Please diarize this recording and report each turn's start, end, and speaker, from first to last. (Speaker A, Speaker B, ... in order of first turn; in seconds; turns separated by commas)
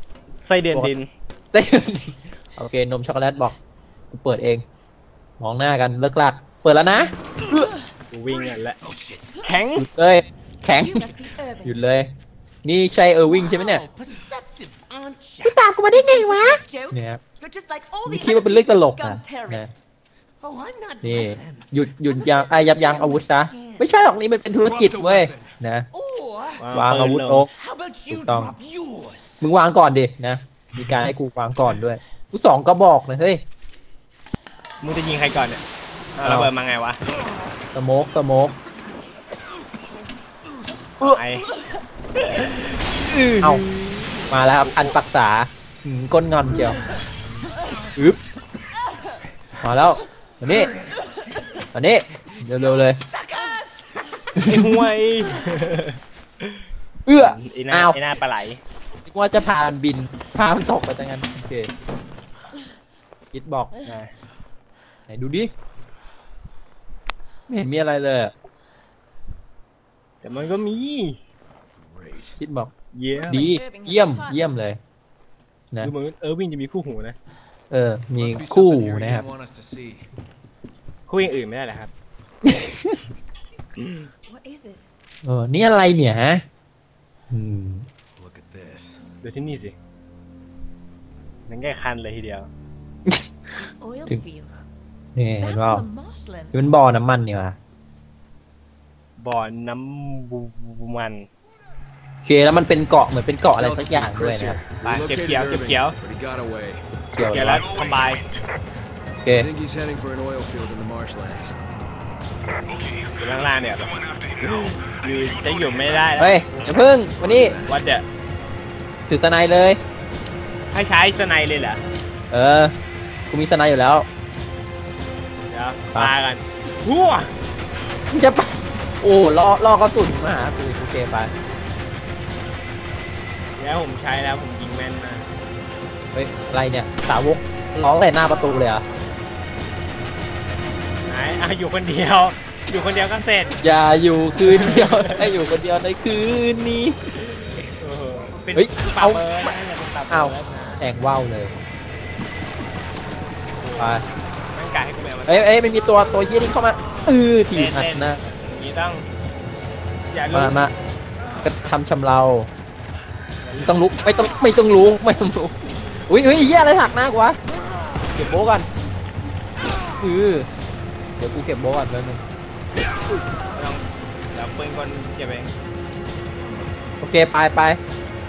Speaker A: 0.5-1.1, Speaker B: 1.5-3.6, Speaker B: 4.1-4.6, Speaker B: 5.4-7.7, Speaker A: 8.1-8.8, Speaker C: 8.5-9.4, Speaker A: 9.4-9.9, Speaker B: 9.8-11.1, Speaker D: 10.7-11.8, Speaker B: 11.6-12.1, Speaker B: 12.7-13.8, Speaker C: 13.3-15.6, Speaker D: 15.0-15.4, Speaker B: 15.4-17.2, Speaker D: 15.9-19.8, Speaker B: 18.1-19.7, Speaker C: 20.4-23.8, Speaker D: 20.4-20.9, Speaker B: 21.0-25.9, Speaker E: 24.6-25.6, Speaker C: 25.9-26.7, Speaker D: 26.1-26.4, Speaker A: 26.6-27.4, Speaker B: 26.7-27.5, Speaker C: 27.5-28.5, Speaker D: 27.7-29.2, Speaker B: 28.1-28.5, Speaker C: 29.1-29.4, Speaker B: 29.4-33.4, Speaker A: 34.8-35.6, Speaker A: 36.2-37.0, Speaker B: 36.2-36.5, Speaker B: 37.7-38.5, Speaker A: 41.0-41.5, Speaker A: 42.2-43.9, Speaker B: 44.3-46.8, Speaker A: 44.6-45.0, Speaker B: 49.6-50.7, Speaker B: 51.7-53.0, Speaker C: 52.8-53.6, Speaker B: 54.4-54.7, Speaker A: 54.4-56.6, Speaker B: 57.1-58.0, Speaker A: 57.2-58.6, Speaker B: 59.1-61.7, Speaker B: 63.3-63.7, Speaker A: 63.8-64.1, Speaker B: 65.1-65.5, Speaker B: 67.5-68.3, Speaker A: 70.2-71.2, Speaker E: 71.8-72.4, Speaker B: 72.4-72.7, Speaker A: 72.9-73.5, Speaker D: 73.2-74.6, Speaker B: 73.3-74.8, Speaker A: 75.8-77.2, Speaker B: 77.7-79.2, Speaker E: 78.1-80.1, Speaker A: 81.1-81.9, Speaker B: 82.5-83.0, Speaker A: 83.8-84.1, Speaker D: 84.3-84.9, Speaker B: 85.2-86.4, Speaker B: 87.3-87.9, Speaker E: 88.2-89.0, Speaker A: 89.2-89.8, Speaker A: 91.5-92.5, Speaker D: 93.6-94.6, Speaker B: 95.2-95.8, Speaker D: 95.4-96.6, Speaker B: 96.5-97.6, Speaker A: 99.2-101.3, Speaker B: 102.2-104.6, Speaker E: 103.6-106.9, Speaker A: 104.8-106.0, Speaker B: 107.1-107.7, Speaker A: 107.2-108.2, Speaker E: 109.3-111.6, Speaker A: 113.1-116.5, Speaker B: 116.2-117.6, Speaker E: 116.6-117.8, Speaker A: 117.7-118.0, Speaker B: 119.1-119.8, Speaker A: 120.7-121.8, Speaker B: 122.3-122.7, Speaker B: 123.3-124.1, Speaker A: 125.5-127.3, Speaker B: 128.1-131.3, Speaker A: 133.6-135.3, Speaker B: 136.1-138.8, Speaker A: 141.1-143.6, Speaker B: 143.6-147.0, Speaker A: 144.4-145.3, Speaker A: 147.2-150.8, Speaker B: 148.6-149.2, Speaker B: 150.1-151.5, Speaker A: 153.6-154.0, Speaker B: 153.8-154.0, Speaker A: 154.5-155.5, Speaker B: 155.3-158.2, Speaker A: 157.5-159.1, Speaker A: 160.1-160.6, Speaker B: 160.3-160.7, Speaker B: 161.4-162.5, Speaker A: 163.4-163.8, Speaker B: 163.6-165.6, Speaker B: 166.1-167.4, Speaker B: 168.1-168.7, Speaker B: 170.0-170.5, Speaker B: 171.2-172.2, Speaker A: 173.6-175.5, Speaker B: 177.0-177.8